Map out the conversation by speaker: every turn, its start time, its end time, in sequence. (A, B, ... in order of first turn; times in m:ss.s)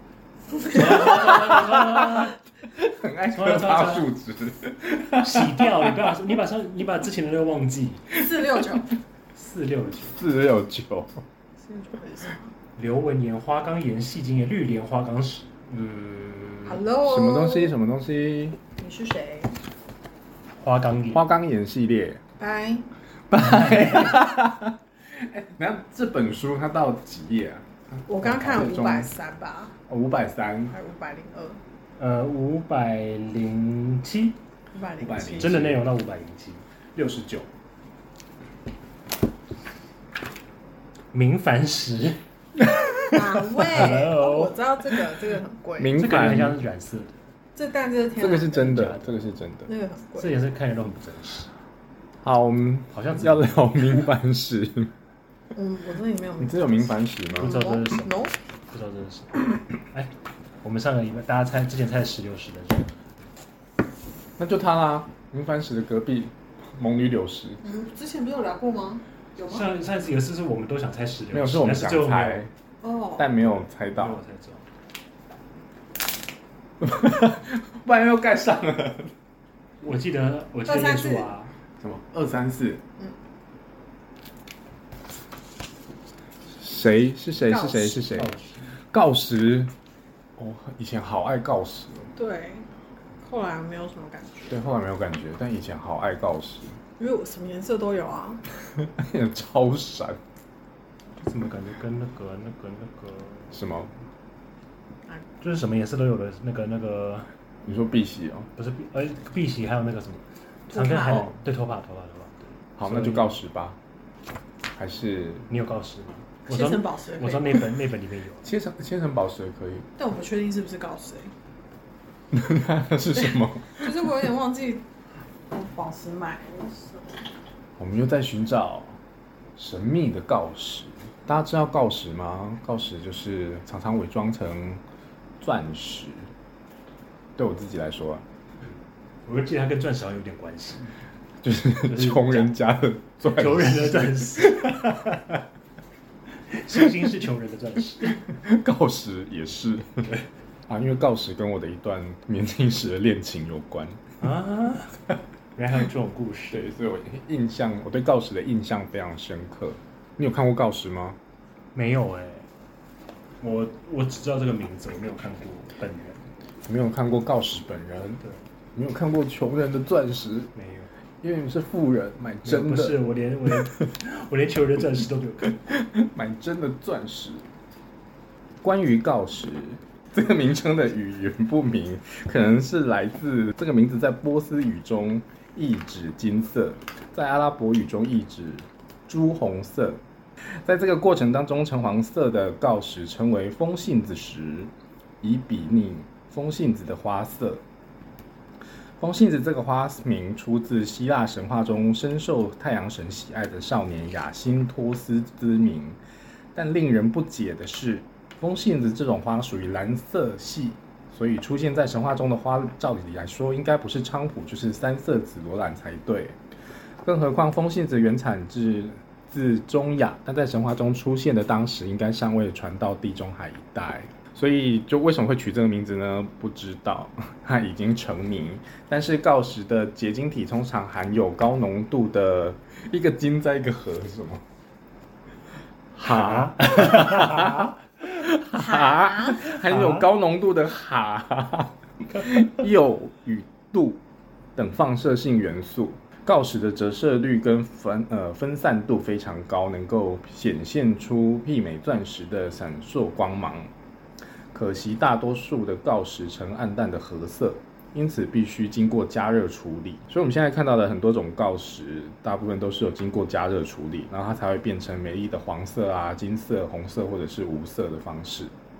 0:00.6-0:02.4 A
0:01.8-0:05.9 B
0:03.3-0:04.1 A
0:05.2-0:08.1 A
0:08.1-0:08.9 C
0:09.3-0:10.2 A
0:10.2-0:11.2 B
0:11.6-0:12.5 C
0:12.8-0:16.8 A
0:16.6-0:17.7 C
0:17.0-0:18.6 B
0:18.8-0:19.6 C
0:20.6-0:21.2 A
0:21.1-0:22.2 B
0:22.4-0:22.8 C
0:23.3-0:29.1 B
0:23.5-0:24.1 A
0:28.1-0:29.7 C
0:29.9-0:30.7 B
0:30.7-0:31.6 C
0:32.0-0:34.4 A
0:34.7-0:35.5 C
0:35.0-0:35.9 B
0:35.4-0:36.6 A
0:36.9-0:37.5 B
0:41.1-0:42.2 A
0:43.0-0:46.1 C
0:43.6-0:44.6 A
0:45.8-0:46.6 B
0:45.9-0:47.2 A
0:47.6-0:48.8 C
0:48.2-0:49.7 B
0:48.6-0:49.1 A
0:49.6-0:50.3 C
0:50.2-0:51.5 A
0:52.2-0:54.9 B
0:52.9-0:53.7 A
0:55.5-0:58.3 C
0:56.4-0:57.6 B
0:57.3-1:00.1 A
1:00.6-1:03.0 A
1:04.4-1:07.6 B
1:07.6-1:09.7 C
1:09.4-1:12.4 A
1:11.3-1:12.5 B
1:12.8-1:13.3 C
1:13.2-1:14.2 B
1:13.9-1:14.6 A
1:16.8-1:19.1 B
1:19.8-1:21.5 A
1:20.6-1:21.3 C
1:21.8-1:22.8 B
1:26.6-1:28.3 B
1:27.4-1:28.0 C
1:28.0-1:28.7 A
1:28.9-1:29.7 B
1:30.4-1:32.1 B
1:32.1-1:32.7 C
1:33.2-1:34.6 C
1:34.5-1:36.8 B
1:37.0-1:38.4 C
1:38.8-1:40.2 B
1:41.2-1:43.6 A
1:43.5-1:43.9 B
1:45.4-1:47.3 A
1:47.6-1:48.5 B
1:48.6-1:53.4 A
1:50.7-1:51.3 C
1:52.8-1:53.8 B
1:54.8-1:55.5 B
1:55.5-1:58.5 A
1:56.5-1:57.6 C
1:58.4-1:59.9 B
2:00.0-2:01.3 C
2:02.3-2:03.9 B
2:03.2-2:04.8 C
2:05.5-2:07.2 C
2:07.8-2:09.0 B
2:09.6-2:14.8 B
2:15.4-2:16.3 B
2:17.4-2:18.2 B
2:19.2-2:20.9 A
2:21.4-2:25.0 B
2:21.9-2:22.5 A
2:23.2-2:25.2 A
2:26.5-2:28.3 A
2:28.3-2:30.1 B
2:30.7-2:34.0 B
2:34.2-2:35.0 A
2:35.6-2:36.6 A
2:36.5-2:41.2 B
2:41.7-2:42.5 A
2:43.4-2:46.2 A
2:46.7-2:48.2 B
2:48.7-2:50.5 B
2:50.5-2:50.9 A
2:51.2-2:53.0 B
2:52.4-2:55.8 A
2:55.7-2:57.4 B
2:58.6-3:10.0 B
3:10.6-3:17.6 B
3:19.0-3:26.0 B
3:26.5-3:36.4 B
3:37.0-3:54.4 B
3:55.9-4:04.0 B
3:56.0-3:57.6 A
3:58.5-3:59.5 C
3:59.6-4:00.1 A
4:04.6-4:13.7 B
4:14.5-4:28.5 B